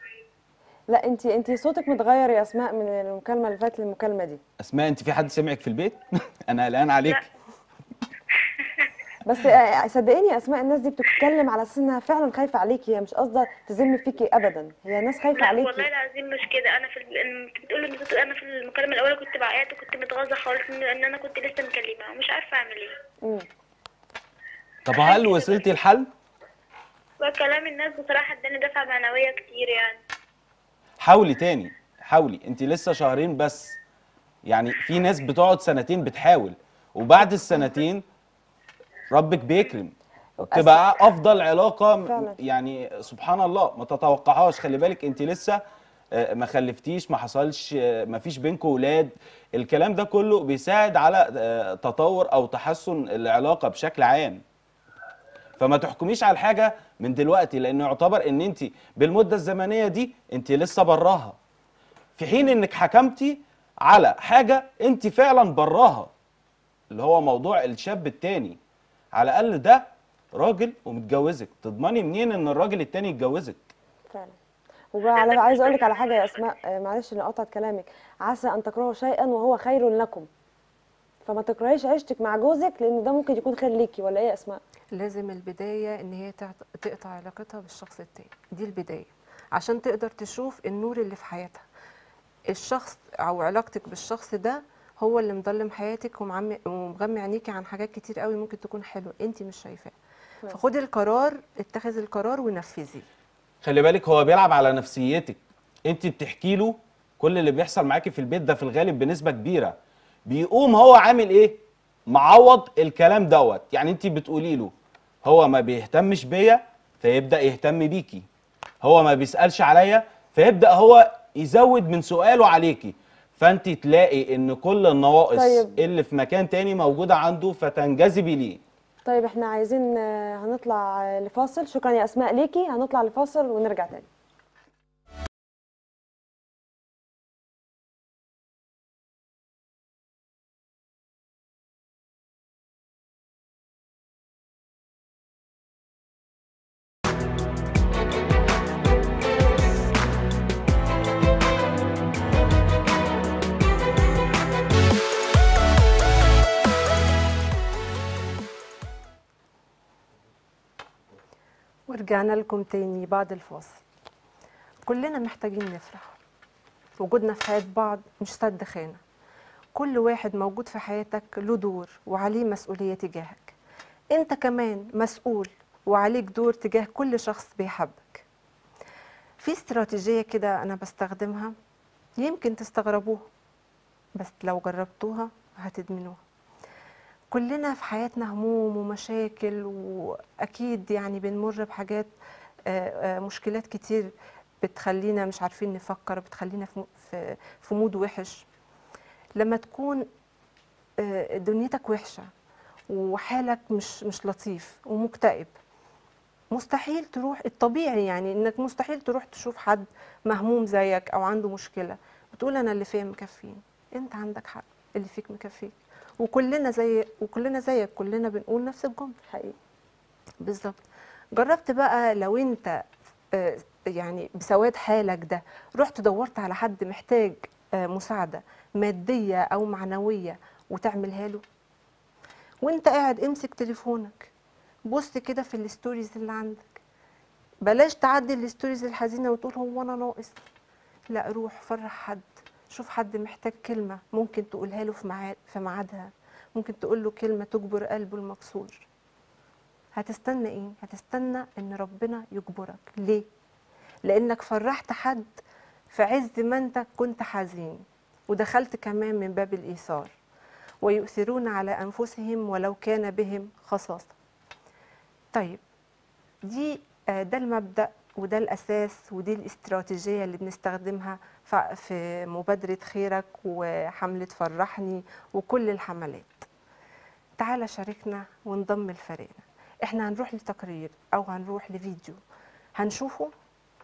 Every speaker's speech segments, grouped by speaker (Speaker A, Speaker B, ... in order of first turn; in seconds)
Speaker A: 0.9-4.4, 9.2-15.9, 40.4-40.9, 42.0-42.4, 74.1-74.4, 75.0-80.3, 81.2-84.6, 125.3-125.7, 129.1-134.1, 219.3-219.6
Speaker B: 4.6-7.3, 24.9-26.1, 31.0-33.8, 34.5-38.0, 39.1-40.0, 40.5-45.6, 46.1-54.4, 55.6-61.4, 62.2-66.1, 66.9-68.6, 69.1-73.7, 103.6-109.8, 110.3-114.7, 115.2-118.2, 118.8-128.6
Speaker C: 15.4-23.0, 24.9-25.6, 27.2-30.0
Speaker D: 84.9-91.7, 92.5-100.0, 100.5-103.1, 161.9-163.8, 164.8-166.2, 167.0-169.0, 169.8-173.6, 174.1-178.2, 179.4-181.6, 182.2-183.2, 184.2-186.2, 187.3-192.1, 192.7-194.1, 194.6-198.5, 199.4-200.1, 201.0-202.3, 202.9-205.6, 206.5-219.2, 220.4-222.8, 223.3-231.4, 232.6-234.3, 234.9-236.8, 237.6-240.4, 241.1-248.9, 249.9-253.3, 254.1-255.4, 255.9-260.1, 260.8-264.1, 265.3-265.6, 266.4-276.5, 277.4-282.2, 282.8-283.3